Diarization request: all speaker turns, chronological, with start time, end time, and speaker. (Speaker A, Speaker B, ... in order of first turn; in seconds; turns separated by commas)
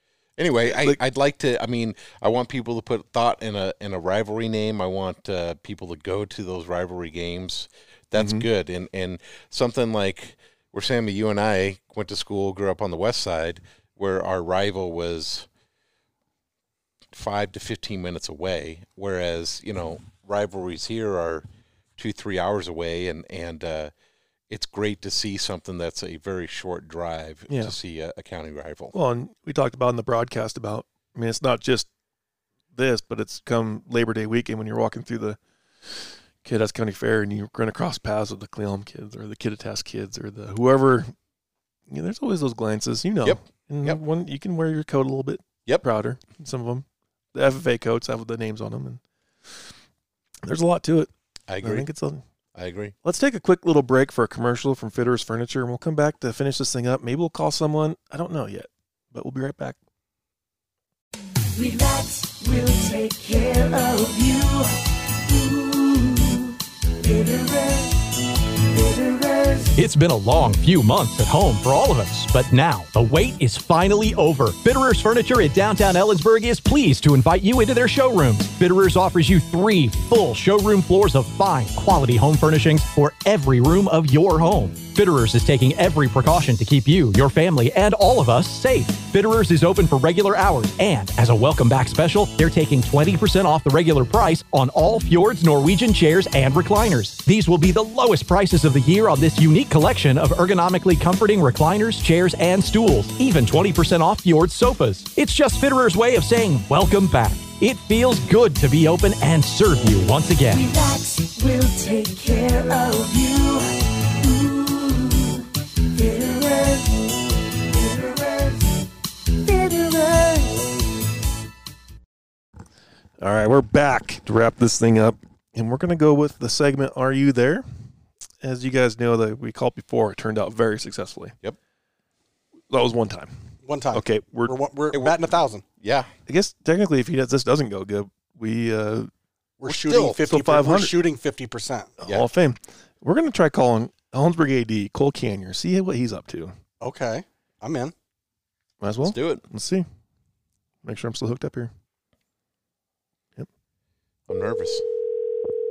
Speaker A: 0.4-15.5, Speaker B: 0.7-1.0, Speaker B: 8.2-8.5, Speaker A: 17.1-23.9, Speaker A: 24.5-28.9, Speaker B: 27.5-27.8, Speaker B: 28.9-31.9, Speaker B: 32.7-35.4, Speaker B: 35.9-41.1, Speaker B: 41.9-49.6, Speaker A: 43.2-44.0, Speaker B: 50.4-52.2, Speaker A: 51.5-51.9, Speaker A: 52.5-52.9, Speaker B: 53.0-59.8, Speaker C: 61.6-68.0, Speaker C: 68.7-69.8, Speaker D: 69.8-110.7, Speaker C: 110.5-120.7, Speaker B: 123.2-127.7, Speaker B: 128.4-131.3, Speaker B: 132.7-133.3, Speaker E: 133.6-135.6, Speaker B: 133.9-134.6, Speaker A: 135.8-136.1, Speaker B: 136.3-139.1, Speaker E: 139.6-141.9, Speaker A: 139.7-140.2, Speaker B: 140.3-140.9, Speaker B: 142.0-146.6, Speaker E: 146.8-147.9, Speaker B: 148.8-149.9, Speaker A: 149.1-149.4, Speaker B: 150.8-151.7, Speaker A: 154.3-154.9